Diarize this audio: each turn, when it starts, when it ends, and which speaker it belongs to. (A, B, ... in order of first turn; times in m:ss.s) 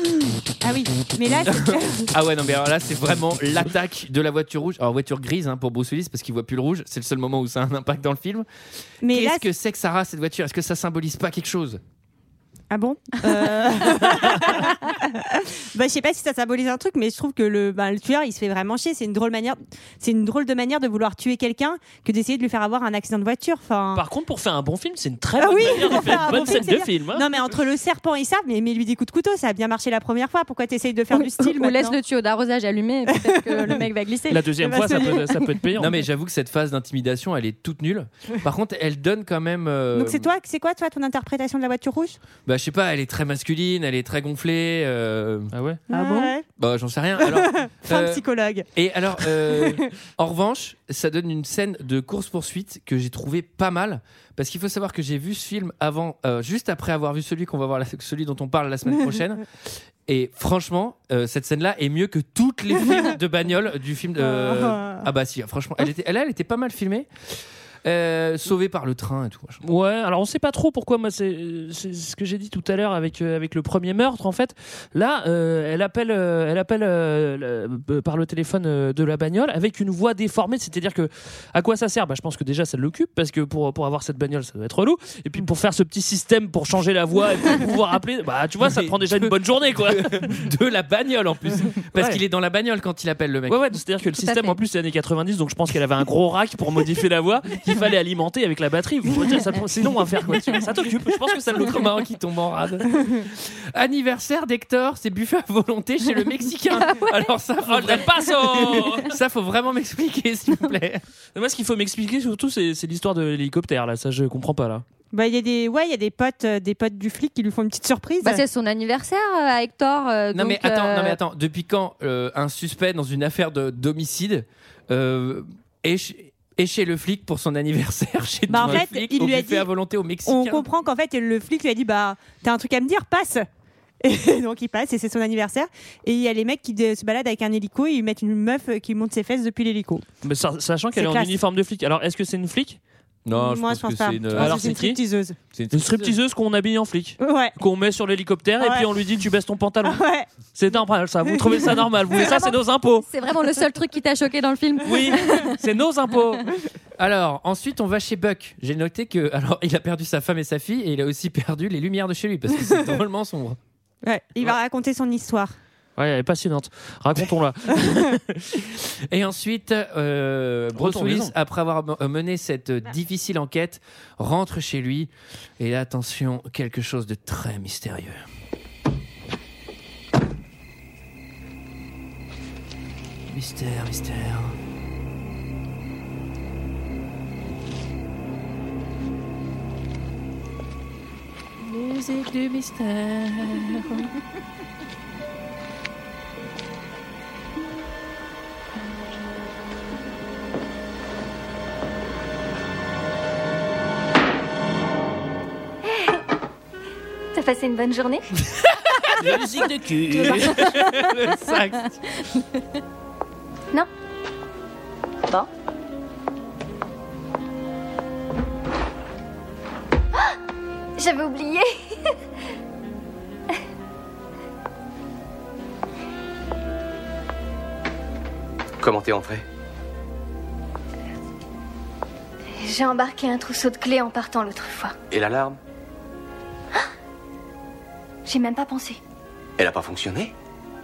0:00.6-0:02.1 A
0:01.4-0:08.5 B
0:09.0-0:09.4 A
0:09.0-0:11.8 B
0:12.7-0:24.0 A
0:23.9-0:27.3 C
0:25.4-0:31.9 A
0:31.1-0:35.2 D
0:33.2-0:33.8 A
0:34.3-0:36.0 C
0:34.6-0:35.3 A
0:35.8-0:40.3 B
0:39.9-0:42.2 A
0:42.4-0:45.5 B
0:45.5-0:45.8 C
0:45.9-0:46.4 A
0:45.9-0:46.2 D
0:46.6-0:48.2 B
0:47.2-0:48.7 A
0:48.7-0:59.5 B
0:49.2-0:49.8 A
1:00.0-1:07.1 B
1:04.2-1:05.0 A
1:07.8-1:09.6 B
1:09.6-1:30.4 C
1:28.6-1:33.6 B
1:31.9-1:32.2 C
1:33.5-1:41.9 C
1:34.2-1:34.6 D
1:41.5-1:51.0 B
1:46.8-1:47.3 D
1:47.6-1:49.1 C
1:51.3-1:54.8 C
1:55.1-1:58.4 A
1:58.2-2:01.2 D
2:00.3-2:10.6 B
2:08.5-2:09.7 A
2:10.2-2:13.4 A
2:14.0-2:20.0 A
2:20.2-2:22.8 C
2:21.0-2:21.3 A
2:23.2-2:24.7 B
2:23.3-2:25.4 A
2:24.3-2:25.0 C
2:25.5-2:26.2 B
2:25.7-2:33.0 C
2:27.2-2:27.5 A
2:28.6-2:28.8 A
2:29.8-2:30.3 A
2:31.3-2:32.4 A
2:33.0-2:35.5 D
2:34.8-2:36.4 C
2:37.0-2:43.6 B
2:44.0-2:45.5 A
2:46.0-2:48.4 C
2:49.1-2:58.2 B
2:50.8-2:51.3 C
3:03.3-3:04.6 B
3:25.9-3:26.2 E
3:27.3-3:28.3 E
3:28.5-3:29.4 B
3:29.2-3:30.5 C
3:30.1-3:32.0 B
3:30.6-3:31.2 D
3:41.0-3:41.9 E
3:48.8-3:49.4 F
3:52.6-3:54.9 E
3:55.1-3:55.6 F
3:58.2-3:59.0 E
3:59.6-4:00.3 F